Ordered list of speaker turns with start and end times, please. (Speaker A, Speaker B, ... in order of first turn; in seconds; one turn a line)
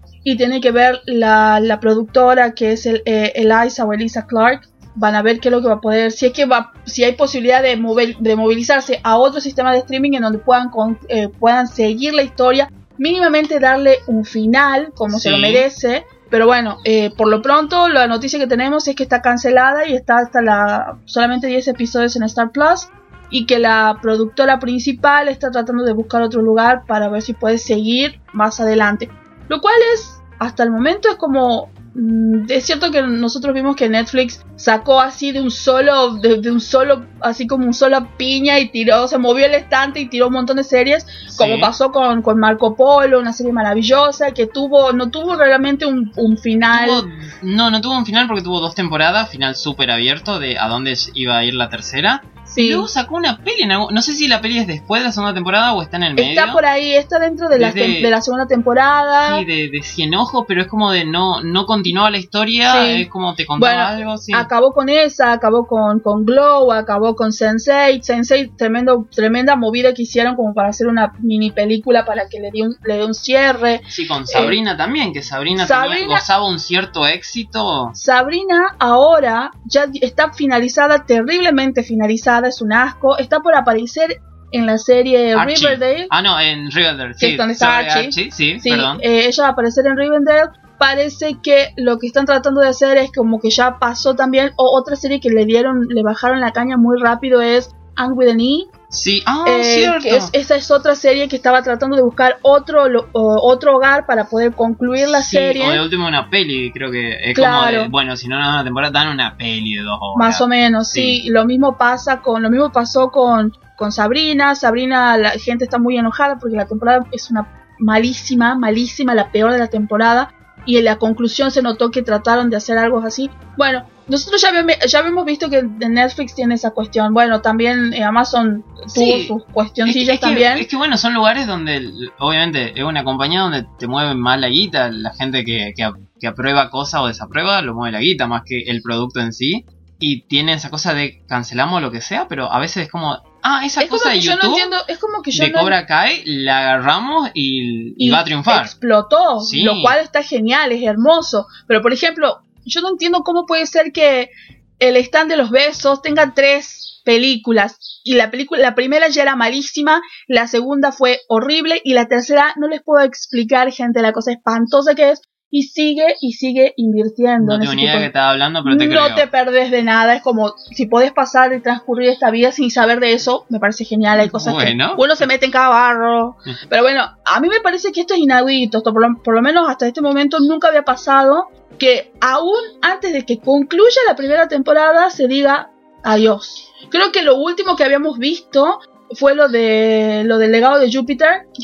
Speaker A: 0.2-47.0
Speaker B: 15.1-15.7
Speaker B: 41.3-41.7
Speaker B: 46.7-56.6
Speaker A: 52.5-52.9
Speaker A: 56.2-59.5
Speaker B: 57.5-58.1
Speaker B: 59.2-64.5
Speaker A: 62.7-63.1
Speaker A: 63.6-74.6
Speaker B: 73.9-78.0
Speaker A: 75.6-76.2
Speaker A: 77.9-86.1
Speaker B: 85.3-89.0
Speaker A: 87.2-98.7
Speaker B: 98.9-100.3
Speaker A: 99.5-105.9
Speaker B: 105.0-111.2
Speaker A: 107.3-107.9
Speaker A: 110.2-130.7
Speaker B: 128.9-144.7
Speaker A: 143.8-145.8
Speaker B: 145.3-148.7
Speaker A: 148.0-168.1
Speaker B: 149.4-150.0
Speaker B: 167.4-169.3
Speaker A: 168.6-191.5
Speaker B: 174.2-175.2